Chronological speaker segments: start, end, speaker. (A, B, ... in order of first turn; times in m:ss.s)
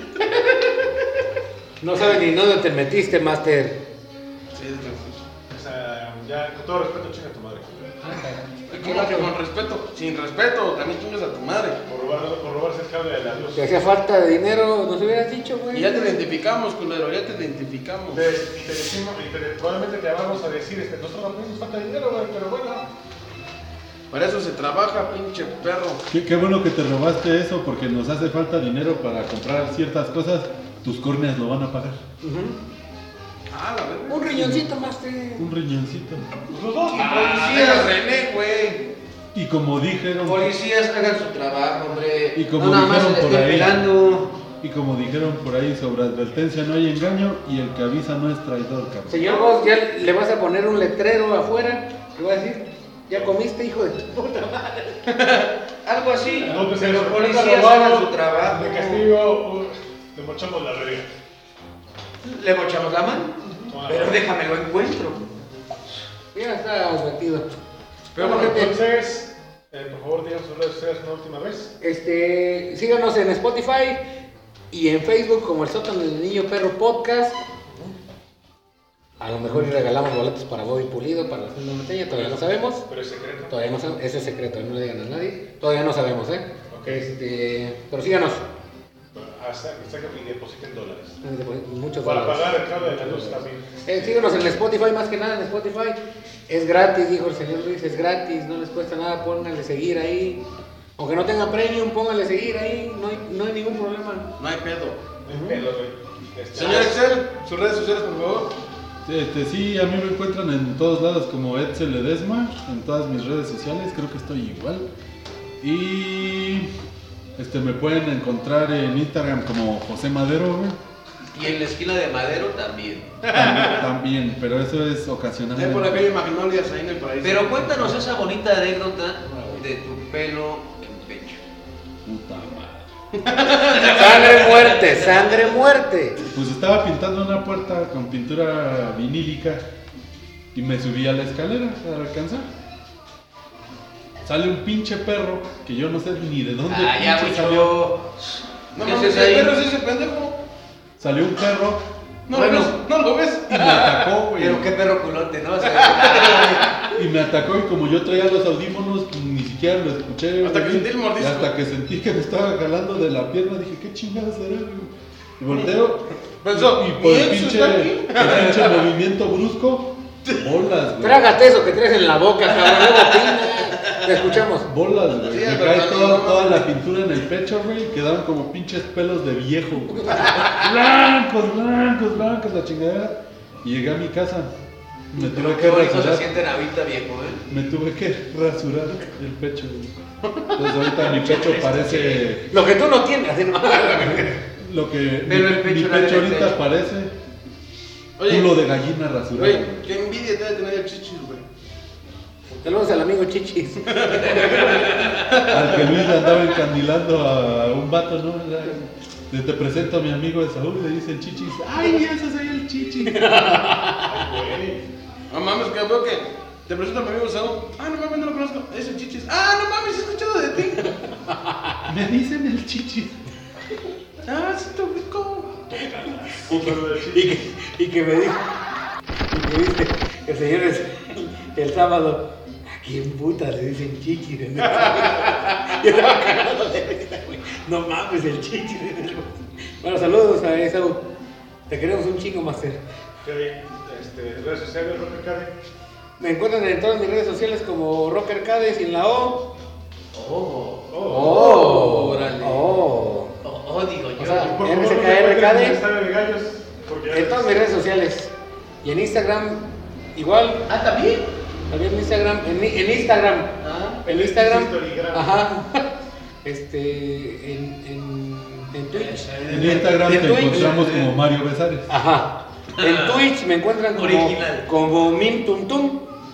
0:01.8-0:03.8 A
0:04.5-0:05.2 B
0:05.5-0:08.0 C
0:08.0-0:09.3 A
0:08.7-0:11.8 B
0:11.9-0:13.7 C
0:13.6-0:16.2 A
0:15.7-0:18.3 B
0:18.1-0:22.8 C
0:24.1-0:26.0 B
0:26.1-0:32.0 D
0:32.2-0:32.6 A
0:33.5-0:34.3 B
0:34.1-0:35.5 A
0:34.3-0:34.7 D
0:35.4-0:36.3 D
0:36.5-0:37.5 C
0:36.9-0:38.0 E
0:37.0-0:38.8 B
0:39.3-0:40.5 D
0:40.2-0:44.3 E
0:42.3-0:43.8 D
0:44.6-0:49.4 D
0:49.1-0:55.0 A
0:49.2-0:49.6 E
0:55.8-0:59.1 E
0:56.4-1:01.1 C
1:02.2-1:05.3 E
1:03.7-1:04.2 C
1:06.3-1:07.4 A
1:08.2-1:08.7 B
1:08.2-1:08.7 A
1:08.2-1:11.7 C
1:11.8-1:14.0 A
1:14.7-1:17.4 A
1:19.2-1:22.8 A
1:22.2-1:24.0 C
1:23.5-1:28.4 A
1:26.7-1:27.0 C
1:29.1-1:31.2 C
1:31.2-1:40.4 A
1:32.0-1:34.5 C
1:41.0-1:44.3 A
1:44.4-1:45.0 B
1:45.2-1:47.0 C
1:45.3-1:45.6 A
1:46.5-1:48.5 B
1:49.0-1:54.9 D
1:55.6-1:56.7 D
1:57.4-2:00.8 D
2:01.3-2:03.2 E
2:03.2-2:03.8 B
2:03.2-2:06.1 D
2:05.6-2:07.9 B
2:07.2-2:11.4 E
2:12.0-2:12.9 D
2:13.1-2:14.0 B
2:13.5-2:15.4 E
2:13.8-2:16.2 A
2:16.3-2:19.6 D
2:20.5-2:22.5 D
2:24.2-2:27.8 D
2:26.7-2:29.6 E
2:28.7-2:30.4 B
2:31.0-2:31.8 D
2:32.3-2:34.2 B
2:32.3-2:32.7 E
2:33.5-2:34.7 D
2:34.4-2:36.9 E
2:35.6-2:37.0 B
2:36.9-2:51.3 D
2:40.4-2:41.5 B
2:46.4-2:48.9 B
2:51.0-2:54.7 A
2:54.6-3:04.5 D
2:55.2-2:56.7 B
3:05.1-3:06.3 D
3:05.1-3:07.4 E
3:07.5-3:10.0 D
3:10.3-3:10.7 B
3:10.5-3:12.4 D
3:11.1-3:12.2 E
3:12.5-3:14.4 A
3:14.0-3:17.1 D
3:15.2-3:16.6 E
3:18.2-3:18.6 B
3:18.3-3:19.9 D
3:19.3-3:21.4 B
3:22.6-3:24.2 A
3:23.9-3:26.5 B
3:24.1-3:25.5 E
3:25.5-3:33.3 D
3:33.0-3:34.2 A
3:34.0-3:34.8 C
3:35.3-3:41.0 B
3:41.8-3:43.2 D
3:44.2-3:45.9 B
3:45.9-3:48.4 A
3:46.4-3:47.4 C
3:49.3-4:01.0 A
4:01.7-4:02.8 A
4:03.2-4:05.5 C
4:06.2-4:09.4 A
4:10.1-4:10.9 E
4:10.9-4:11.4 C
4:11.0-4:13.3 A
4:11.1-4:12.6 B
4:13.4-4:14.6 E
4:14.2-4:15.8 A
4:14.3-4:17.6 C
4:17.1-4:20.6 A
4:20.7-4:21.3 E
4:21.7-4:23.5 A
4:23.6-4:24.0 E
4:24.0-4:25.5 C
4:24.1-4:25.9 A
4:26.4-4:30.9 A
4:28.9-4:31.1 E
4:29.5-4:31.9 D
4:31.9-4:36.0 A
4:32.7-4:33.3 E
4:33.9-4:34.7 E